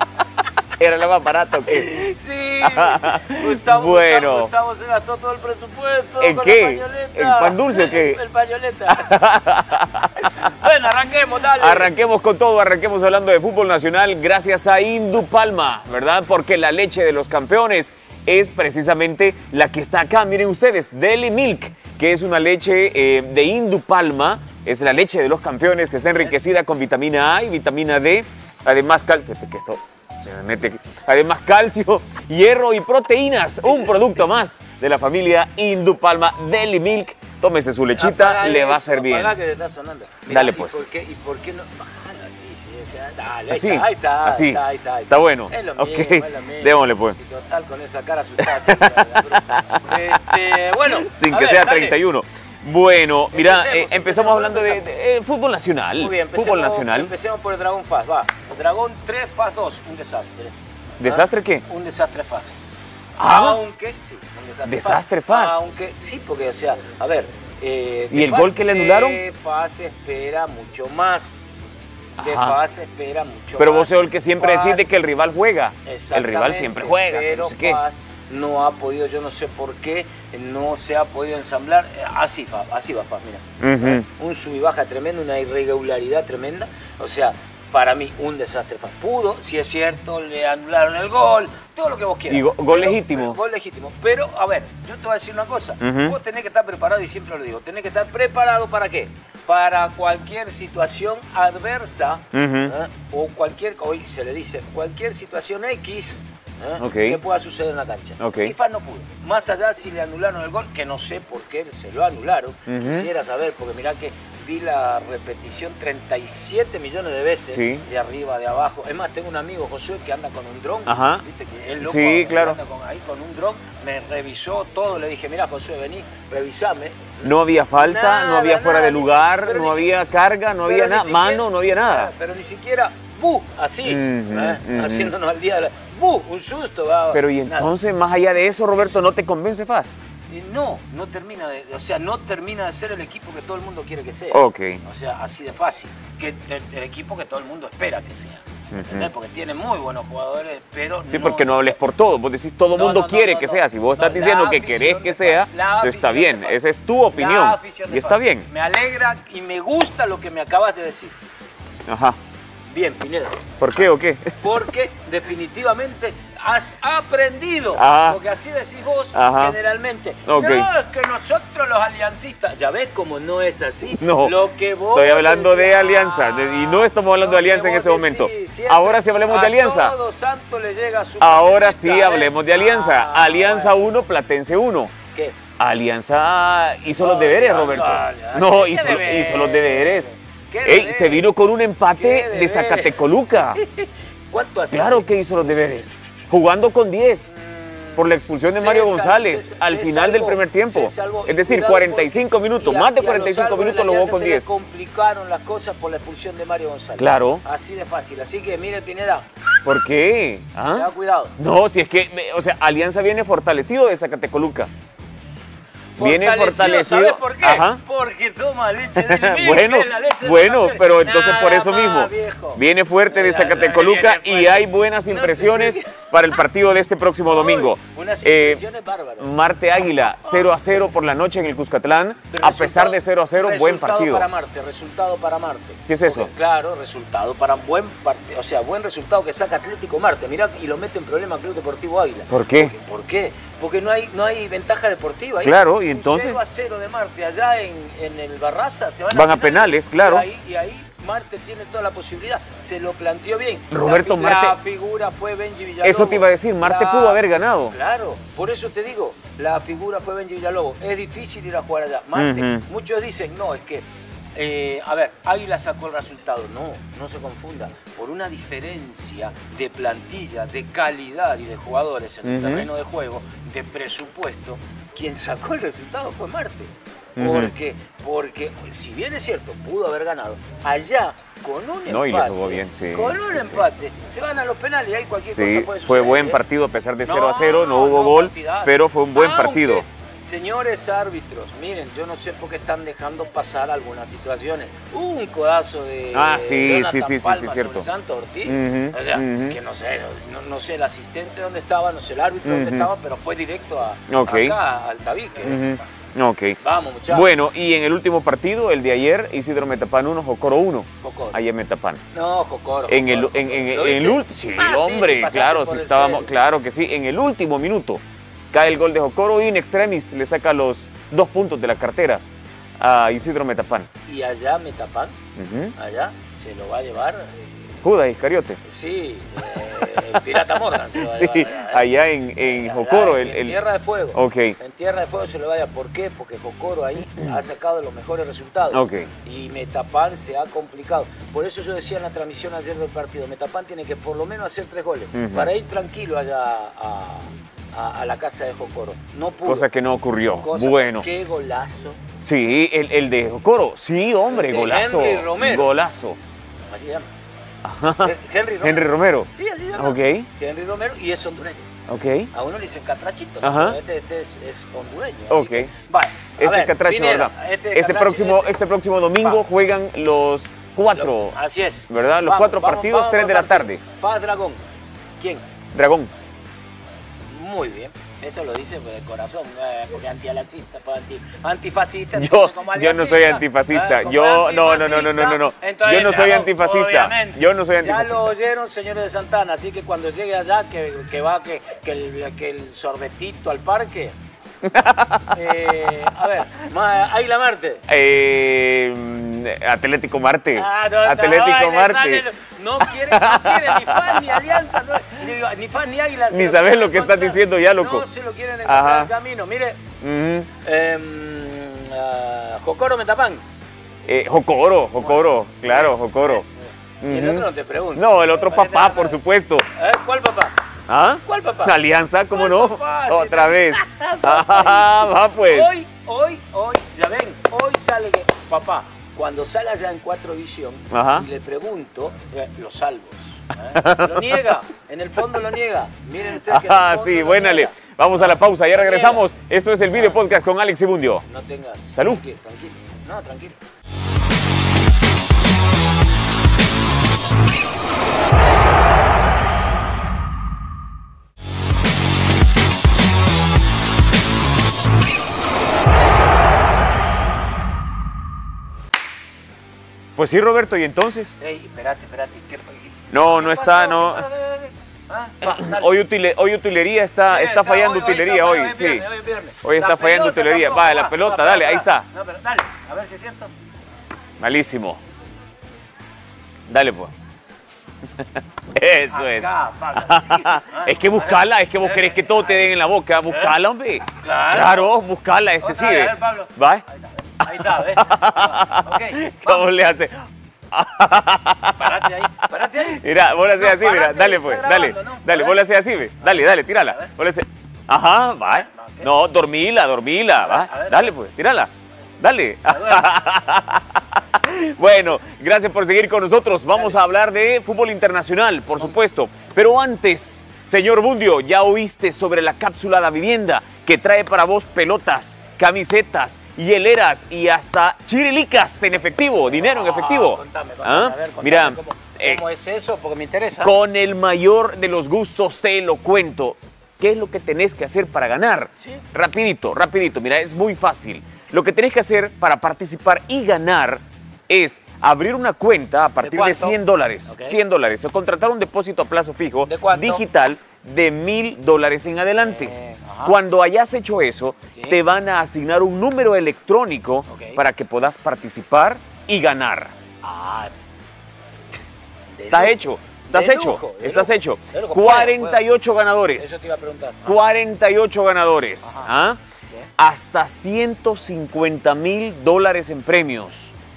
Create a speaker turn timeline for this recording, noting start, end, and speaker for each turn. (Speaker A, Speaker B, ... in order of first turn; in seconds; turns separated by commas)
Speaker A: 0.8-4.5, Speaker B: 1.7-9.2, Speaker A: 6.2-8.2, Speaker A: 8.9-10.5, Speaker B: 9.8-11.9, Speaker A: 11.5-39.4, Speaker B: 33.6-34.2, Speaker B: 37.9-52.0, Speaker A: 40.3-40.8, Speaker A: 43.5-47.2, Speaker A: 48.4-50.2, Speaker A: 50.8-57.1, Speaker B: 53.3-54.9, Speaker B: 56.0-62.6, Speaker A: 61.0-61.6, Speaker A: 63.2-63.6, Speaker B: 63.2-71.6, Speaker A: 64.7-65.6, Speaker A: 68.1-69.2, Speaker A: 72.2-72.6, Speaker B: 72.2-74.9, Speaker A: 73.6-77.8, Speaker B: 75.8-130.0, Speaker A: 83.6-84.0, Speaker A: 92.3-93.4, Speaker A: 95.8-96.2, Speaker A: 102.3-102.7, Speaker A: 106.8-107.2, Speaker A: 108.2-108.5, Speaker A: 112.7-113.1, Speaker A: 117.5-117.8, Speaker A: 120.9-121.2, Speaker A: 121.8-122.6, Speaker A: 127.2-132.1, Speaker B: 130.6-137.7, Speaker A: 133.8-135.1, Speaker A: 137.1-140.0, Speaker B: 140.3-151.8, Speaker A: 144.3-144.8, Speaker A: 148.7-149.1, Speaker A: 151.1-158.5, Speaker B: 152.7-156.6, Speaker B: 157.1-161.2, Speaker A: 161.9-162.2, Speaker B: 162.7-183.8, Speaker A: 163.6-164.7, Speaker A: 167.8-168.2, Speaker A: 169.1-169.6, Speaker A: 170.3-170.7, Speaker A: 174.0-174.4, Speaker A: 174.9-180.0, Speaker A: 181.2-184.9, Speaker A: 185.6-190.1, Speaker B: 187.0-191.3, Speaker A: 190.6-193.6, Speaker B: 191.9-195.8, Speaker A: 194.7-197.3, Speaker B: 197.2-209.3, Speaker A: 197.9-204.5, Speaker A: 207.0-207.4, Speaker A: 209.6-214.7, Speaker B: 210.7-211.3, Speaker B: 215.9-226.1, Speaker A: 216.0-217.8, Speaker A: 219.0-228.6, Speaker B: 227.2-229.3, Speaker A: 229.2-234.3, Speaker B: 230.0-230.7, Speaker B: 232.2-263.8, Speaker A: 235.9-236.3, Speaker A: 242.3-242.7, Speaker A: 245.4-246.4, Speaker A: 249.1-250.3, Speaker A: 253.7-254.6, Speaker A: 255.8-257.8, Speaker A: 262.1-262.6, Speaker B: 264.4-286.4, Speaker A: 272.2-272.7, Speaker A: 277.2-277.5, Speaker A: 281.9-283.7, Speaker A: 285.3-289.8, Speaker B: 287.0-305.8, Speaker A: 296.1-297.9, Speaker A: 298.4-299.6, Speaker A: 302.4-302.9, Speaker A: 304.1-304.6, Speaker A: 305.4-306.6, Speaker B: 306.6-307.3, Speaker A: 307.1-312.0, Speaker B: 311.0-311.4, Speaker B: 312.1-316.3, Speaker A: 312.9-322.2, Speaker A: 322.8-323.9, Speaker B: 324.1-325.1, Speaker A: 325.4-325.7, Speaker B: 325.8-327.8, Speaker A: 327.8-328.6, Speaker B: 328.6-349.7, Speaker A: 329.9-333.6, Speaker A: 334.1-334.6, Speaker A: 338.7-339.1, Speaker A: 345.1-345.5, Speaker A: 349.4-351.1, Speaker B: 350.4-352.0, Speaker A: 352.2-356.2, Speaker B: 354.3-355.7, Speaker B: 356.7-357.1, Speaker A: 357.6-360.3, Speaker B: 358.0-361.7, Speaker A: 361.9-362.3, Speaker B: 362.3-368.6, Speaker A: 363.4-363.8, Speaker A: 365.3-365.7, Speaker A: 366.4-371.4, Speaker B: 370.9-374.6, Speaker A: 371.9-373.8, Speaker A: 375.7-376.1, Speaker B: 377.3-394.1, Speaker A: 382.1-388.3, Speaker A: 394.6-395.5, Speaker B: 395.3-397.8, Speaker A: 397.9-402.2, Speaker B: 400.5-409.8, Speaker A: 403.0-404.6, Speaker A: 406.3-408.1, Speaker A: 408.6-409.1, Speaker A: 410.0-410.5, Speaker B: 410.6-413.4, Speaker A: 414.1-416.4, Speaker B: 415.0-419.2, Speaker A: 417.0-419.6, Speaker B: 419.7-420.6, Speaker A: 420.9-425.7, Speaker B: 421.2-421.8, Speaker B: 422.3-439.3, Speaker A: 430.9-431.3, Speaker A: 433.7-434.5, Speaker A: 436.4-441.2, Speaker B: 439.9-440.2, Speaker B: 441.2-443.6, Speaker A: 441.9-442.2, Speaker A: 460.1-461.4, Speaker B: 461.4-466.0, Speaker A: 463.1-464.2, Speaker A: 465.4-469.1, Speaker B: 467.2-473.5, Speaker A: 469.6-472.1, Speaker A: 474.4-475.0, Speaker A: 476.7-477.1, Speaker A: 478.2-486.8, Speaker B: 479.1-482.7, Speaker B: 483.2-483.6, Speaker B: 484.1-484.9, Speaker B: 485.6-489.7, Speaker A: 487.4-522.4, Speaker B: 491.7-495.6, Speaker B: 496.2-497.1, Speaker B: 498.4-499.1, Speaker B: 500.4-501.1, Speaker B: 502.7-503.2, Speaker B: 519.5-523.8, Speaker A: 523.6-549.9, Speaker B: 528.8-529.0, Speaker B: 536.2-537.6, Speaker B: 539.6-540.2, Speaker B: 542.4-543.4, Speaker B: 544.7-545.0, Speaker B: 547.3-547.6, Speaker B: 550.2-550.7, Speaker B: 552.3-555.7, Speaker A: 552.4-556.6, Speaker B: 556.4-557.4, Speaker A: 557.2-559.4, Speaker B: 558.8-559.1, Speaker A: 560.0-563.7